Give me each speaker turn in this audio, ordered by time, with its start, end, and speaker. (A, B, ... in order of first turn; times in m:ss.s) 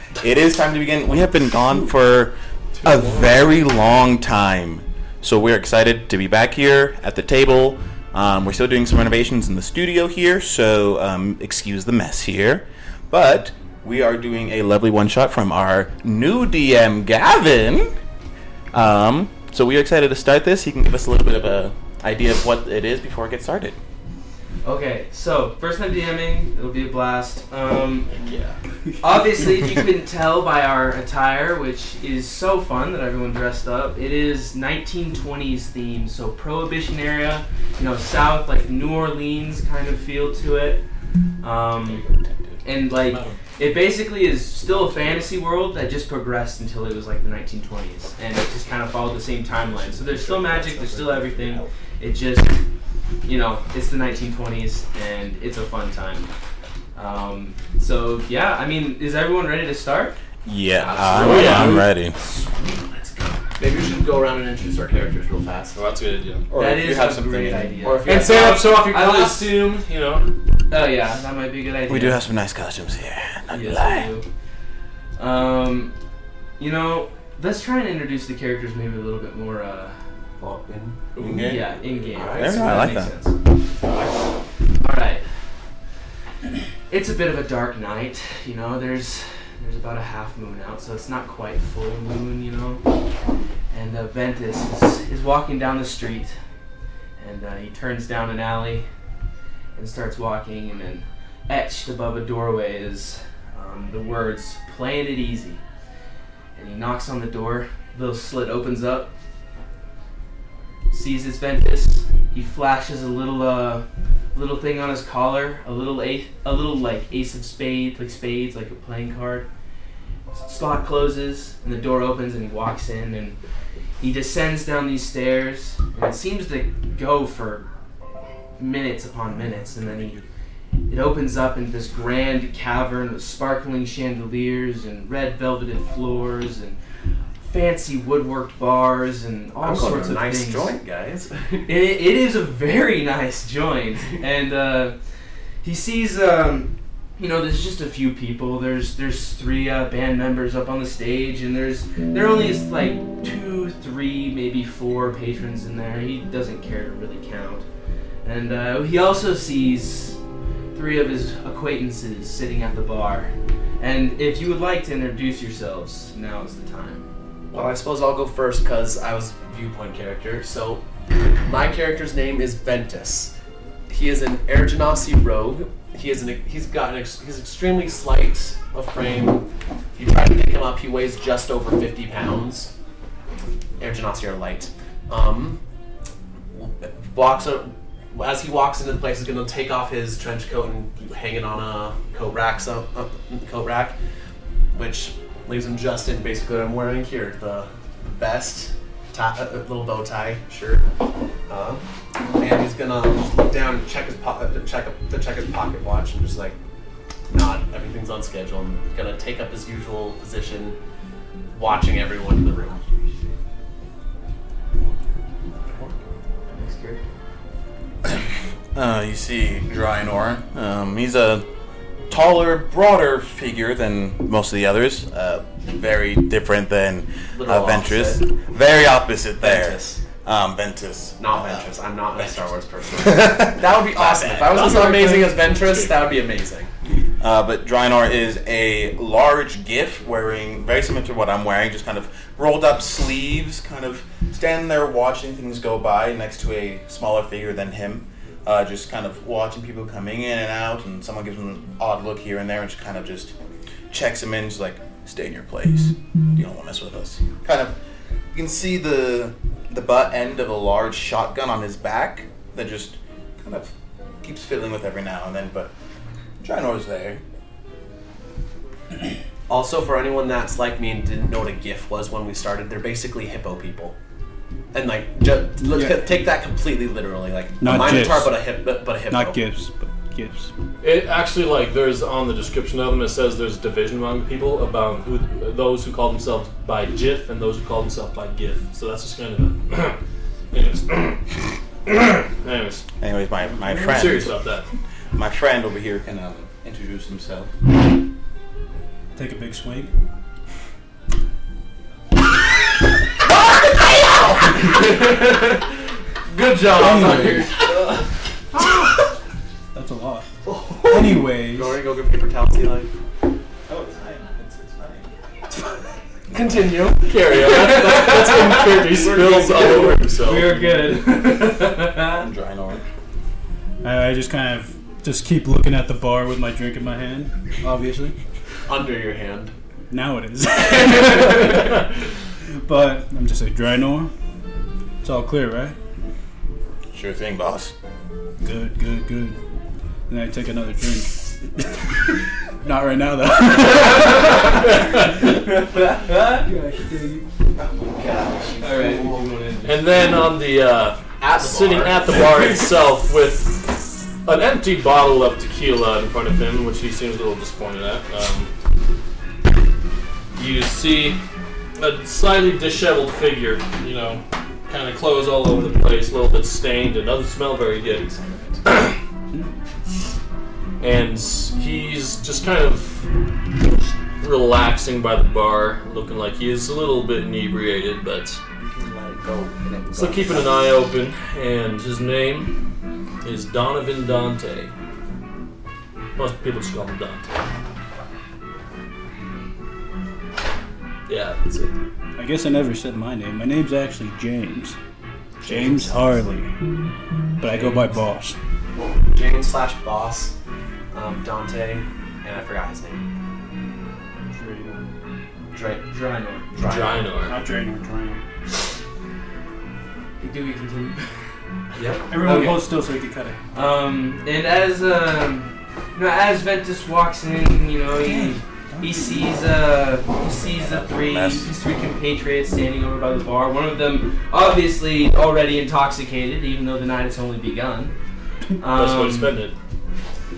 0:00.2-0:17.9 A
0:02.8-0:03.3 B
0:18.7-0:23.8 A
0:24.6-0:28.1 C
0:28.2-0:28.5 A
0:29.0-0:40.8 C
0:41.4-0:42.0 C
0:41.8-0:42.6 A
0:42.6-0:52.6 C
0:42.9-0:43.4 B
0:44.9-0:45.2 D
0:49.7-0:51.7 D
0:53.2-0:56.3 C
0:56.9-1:00.2 C
1:00.4-1:02.1 A
1:00.8-1:01.8 D
1:01.2-1:01.8 B
1:01.2-1:03.5 C
1:03.6-1:05.8 D
1:05.7-1:06.4 B
1:06.5-1:07.8 A
1:06.5-1:09.5 C
1:07.8-1:09.2 D
1:08.0-1:10.3 B
1:10.7-1:12.2 C
1:11.9-1:14.1 A
1:13.5-1:14.2 C
1:15.2-1:15.9 C
1:16.6-1:20.0 C
1:20.4-1:21.4 D
1:21.2-1:23.1 A
1:21.4-1:23.4 C
1:22.1-1:22.9 D
1:24.8-1:25.2 C
1:26.9-1:32.8 C
1:33.7-1:36.3 C
1:37.2-1:38.9 C
1:39.8-1:45.6 C
1:46.6-1:49.1 C
1:50.9-1:59.5 C
2:00.3-2:03.4 C
2:04.0-2:07.7 C
2:08.6-2:10.2 C
2:10.9-2:16.8 C
2:17.4-2:20.8 C
2:19.6-2:21.7 D
2:21.7-2:25.0 C
2:25.6-2:37.6 C
2:38.2-2:40.2 C
2:40.7-2:47.1 C
2:47.5-2:50.8 D
2:51.4-2:53.3 D
2:53.9-3:02.7 D
3:03.8-3:05.6 D
3:06.5-3:14.0 D
3:14.7-3:20.8 D
3:21.5-3:21.8 D
3:22.3-3:26.6 D
3:27.3-3:30.8 D
3:31.5-3:32.8 D
3:35.6-3:36.0 A
3:36.5-3:37.0 C
3:38.7-3:41.4 A
3:42.1-3:54.7 A
3:47.3-3:48.2 D
3:49.4-3:50.0 D
3:51.2-3:56.7 D
3:54.5-3:55.9 B
3:57.2-4:13.3 A
4:13.9-4:17.8 A
4:18.3-4:25.7 A
4:26.4-4:27.2 A
4:29.5-4:34.0 D
4:34.7-4:39.4 D
4:35.6-4:36.0 E
4:37.6-4:38.4 E
4:39.1-4:40.5 E
4:40.8-4:50.0 B
4:50.5-4:51.3 B
4:51.8-4:52.8 B
4:53.0-4:54.3 A
4:53.8-4:54.6 B
4:55.1-4:57.5 A
4:59.1-4:59.9 E
5:03.3-5:05.7 D
5:06.2-5:07.9 D
5:06.7-5:07.7 E
5:09.7-5:10.3 E
5:10.4-5:12.9 D
5:10.8-5:11.8 E
5:13.7-5:15.1 A
5:16.3-5:20.1 D
5:17.0-5:20.6 B
5:17.6-5:18.4 C
5:20.2-5:22.2 C
5:22.1-5:22.8 A
5:23.8-5:28.1 E
5:28.7-5:29.5 D
5:29.9-5:31.8 E
5:32.5-5:34.1 E
5:35.0-5:35.8 E
5:36.9-5:37.7 A
5:38.4-5:39.4 E
5:40.1-5:45.3 E
5:44.0-5:44.6 C
5:45.2-5:46.5 C
5:46.4-5:47.2 E
5:47.6-5:49.0 A
5:48.5-5:49.2 D
5:48.6-5:50.0 C
5:49.6-5:58.5 B
5:51.2-5:52.6 D
6:00.3-6:01.2 B
6:01.8-6:09.0 B
6:10.8-6:13.1 B
6:14.1-6:18.4 B
6:18.6-6:20.7 D
6:19.9-6:22.6 B
6:23.2-6:24.7 B
6:26.2-6:27.5 B
6:31.1-6:31.8 B
6:32.2-6:34.8 E
6:35.4-6:36.1 D
6:35.4-6:36.5 E
6:37.4-6:38.4 E
6:38.8-6:40.3 D
6:40.9-6:43.0 D
6:44.3-6:44.8 E
6:45.5-6:45.9 D
6:45.9-6:46.5 C
6:46.5-6:47.1 D
6:46.6-6:47.4 B
6:47.2-6:48.2 E
6:50.2-6:51.0 C
6:51.7-6:52.1 D
6:52.1-6:53.4 E
6:52.2-6:52.7 C
6:53.5-7:07.9 C
6:58.0-6:59.2 E
7:00.4-7:01.5 A
7:08.6-7:09.4 C
7:08.7-7:09.6 B